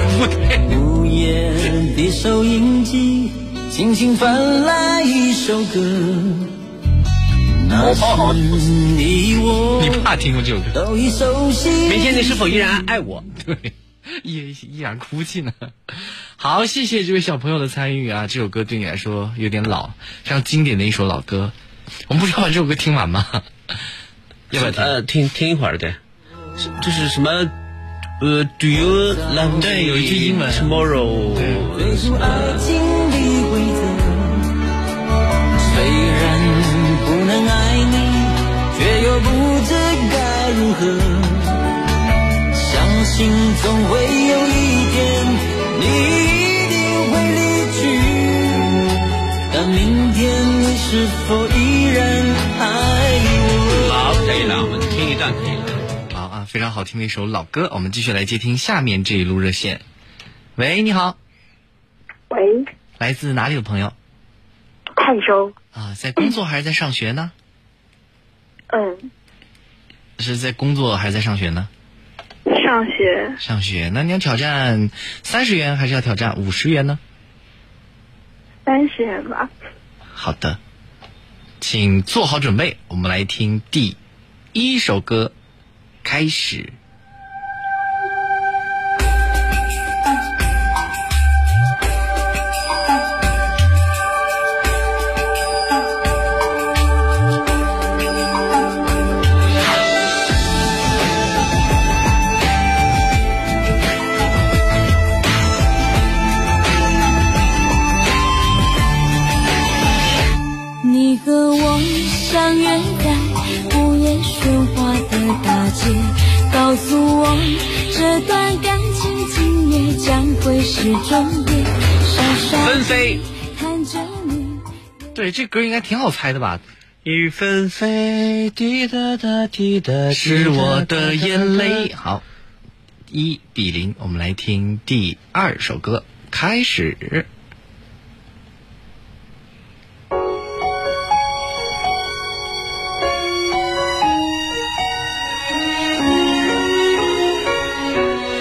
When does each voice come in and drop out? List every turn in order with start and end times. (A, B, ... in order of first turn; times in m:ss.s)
0:00.1-0:00.6 A
0:00.6-0:06.5 B
0:07.6-0:10.1 B
0:08.0-0:08.3 C
0:09.8-0:10.8 A
0:10.7-0:12.9 B
0:11.9-0:13.2 C
0:13.4-0:21.6 A
0:22.1-0:23.5 A
0:24.5-0:24.9 A
0:24.5-0:26.0 C
0:26.6-0:27.5 C
0:28.2-0:32.6 C
0:29.1-0:29.8 B
0:29.6-0:30.7 A
0:31.4-0:31.6 A
0:31.7-0:34.5 B
0:35.6-0:41.6 B
0:42.5-0:48.9 B
0:49.5-0:54.0 B
0:53.7-0:55.8 C
0:56.1-0:59.8 A
1:00.6-1:01.2 A
1:02.3-1:02.6 D
1:03.0-1:04.0 A
1:05.0-1:05.5 D
1:05.7-1:07.3 A
1:08.7-1:09.1 D
1:10.2-1:11.7 A
1:12.5-1:13.4 D
1:13.4-1:17.0 A
1:18.7-1:19.5 D
1:20.1-1:20.6 A
1:21.6-1:24.0 A
1:24.5-1:25.3 A
1:26.0-1:26.8 A
1:50.8-2:04.6 E
2:02.6-2:03.2 C
2:05.1-2:06.6 A
2:07.0-2:11.9 C
2:10.1-2:12.2 A
2:13.1-2:17.3 A